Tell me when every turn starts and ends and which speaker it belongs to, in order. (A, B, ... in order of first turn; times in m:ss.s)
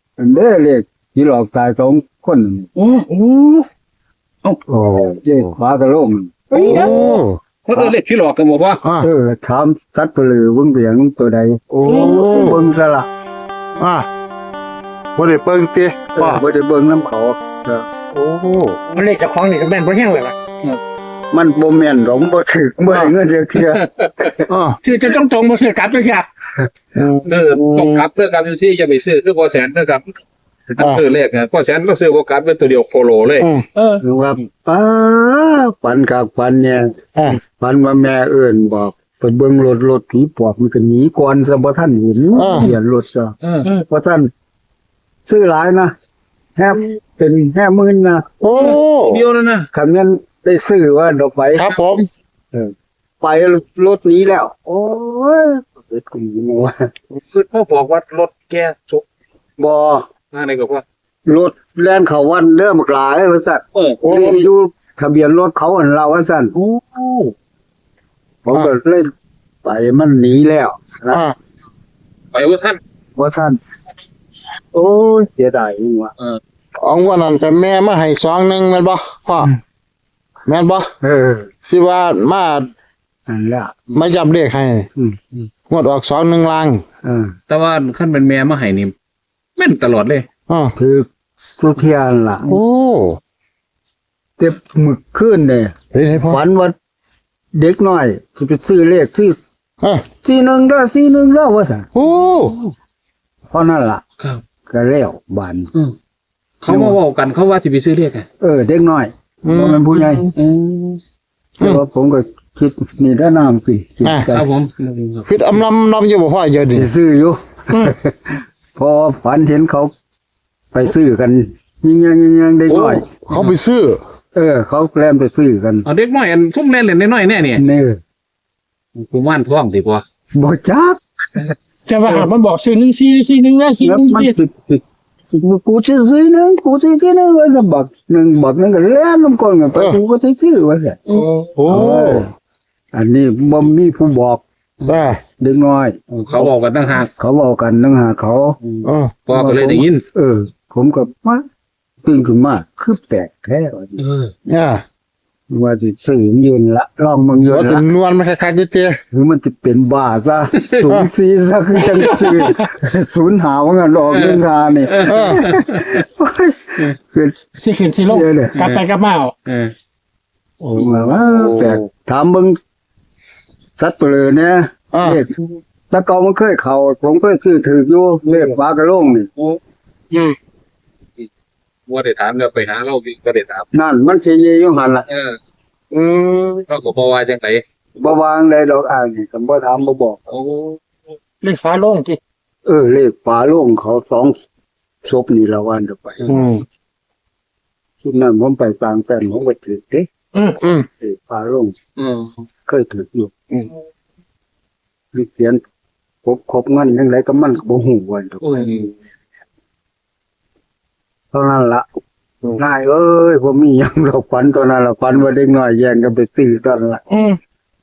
0:00.2-0:02.7 A
0:02.8-0:03.6 B
0:04.7-0:06.9 A
0:06.5-0:07.2 C
0:06.6-0:07.4 D
0:07.6-0:08.8 B
0:08.8-0:09.1 D
0:09.0-0:13.1 A
0:11.7-0:12.6 D
0:11.8-0:12.5 C
0:13.8-0:14.0 D
0:15.2-0:16.4 D
0:16.1-0:17.9 A
0:18.1-0:18.8 D
0:18.9-0:20.3 C
0:21.3-0:24.4 A
0:24.5-0:24.8 D
0:24.8-0:26.3 C
0:27.0-0:28.0 D
0:27.3-0:30.0 B
0:30.7-0:33.5 B
0:33.8-0:34.0 C
0:34.0-0:43.4 A
0:42.3-0:42.7 D
0:43.4-0:43.7 B
0:43.9-0:44.3 A
0:45.3-0:46.0 A
0:46.6-0:48.2 A
0:48.4-0:49.2 D
0:49.0-0:49.7 B
0:49.7-0:51.8 A
0:51.6-0:52.1 D
0:52.5-0:56.9 A
0:57.2-0:59.0 B
0:59.6-1:00.0 A
1:00.3-1:00.8 B
1:01.2-1:06.5 A
1:03.7-1:04.4 B
1:04.1-1:04.4 D
1:06.6-1:07.3 B
1:08.4-1:09.1 A
1:09.6-1:11.2 A
1:11.1-1:11.4 D
1:12.3-1:12.8 B
1:13.2-1:13.6 A
1:14.7-1:16.1 A
1:16.8-1:19.5 D
1:20.4-1:20.9 D
1:21.0-1:21.5 A
1:21.6-1:22.7 D
1:23.3-1:23.8 A
1:23.9-1:24.9 D
1:25.7-1:26.8 D
1:27.0-1:27.3 A
1:27.5-1:28.9 B
1:29.6-1:30.3 B
1:30.5-1:30.8 D
1:30.8-1:32.5 A
1:32.5-1:33.2 D
1:34.4-1:35.8 A
1:35.9-1:36.4 D
1:36.3-1:36.8 A
1:37.6-1:39.4 A
1:40.2-1:41.9 A
1:41.9-1:42.6 D
1:43.5-1:44.0 A
1:44.7-1:45.7 A
1:46.6-1:48.2 B
1:46.7-1:47.0 A
1:48.4-1:50.3 A
1:49.4-1:50.2 D
1:50.3-1:51.0 B
1:51.6-1:54.5 A
1:54.3-1:55.2 B
1:55.2-1:56.9 D
1:56.7-1:59.9 A
2:00.7-2:03.0 A
2:02.7-2:04.0 D
2:04.4-2:05.9 A
2:05.9-2:07.6 B
2:07.6-2:08.0 A
2:09.0-2:10.0 B
2:10.3-2:11.0 A
2:11.9-2:14.3 C
2:13.8-2:21.0 A
2:21.1-2:21.5 B
2:21.6-2:22.3 D
2:21.7-2:22.3 A
2:22.9-2:24.4 A
2:24.9-2:25.2 D
2:25.4-2:26.5 A
2:26.3-2:27.1 B
2:27.1-2:31.4 A
2:28.8-2:29.2 D
2:29.3-2:30.0 B
2:32.0-2:34.0 A
2:34.0-2:34.3 B
2:34.5-2:34.8 D
2:35.5-2:37.8 A
2:37.5-2:39.0 D
2:39.1-2:47.4 A
2:40.6-2:40.8 B
2:42.3-2:42.6 C
2:44.1-2:46.0 B
2:45.1-2:45.4 D
2:47.6-2:49.3 C
2:48.1-2:48.6 A
2:48.6-2:48.8 B
2:49.5-2:49.7 B
2:50.7-2:52.6 A
2:51.1-2:51.8 D
2:53.8-2:59.3 A
2:54.9-2:55.2 D
2:58.3-2:58.6 B
3:01.9-3:03.7 B
3:03.7-3:05.1 A
3:05.1-3:05.4 B
3:05.9-3:06.6 D
3:06.7-3:07.6 B
3:08.0-3:10.2 A
3:10.3-3:10.8 B
3:11.4-3:12.2 C
3:12.6-3:14.4 A
3:15.0-3:16.4 A
3:16.3-3:16.6 D
3:18.0-3:20.1 A
3:20.6-3:20.9 D
3:21.0-3:21.7 A
3:22.0-3:22.3 B
3:22.7-3:23.3 A
3:25.1-3:25.6 A
3:26.2-3:28.7 A
3:28.4-3:28.9 B
3:31.3-3:31.9 A
3:32.5-3:37.0 A
3:37.1-3:37.4 C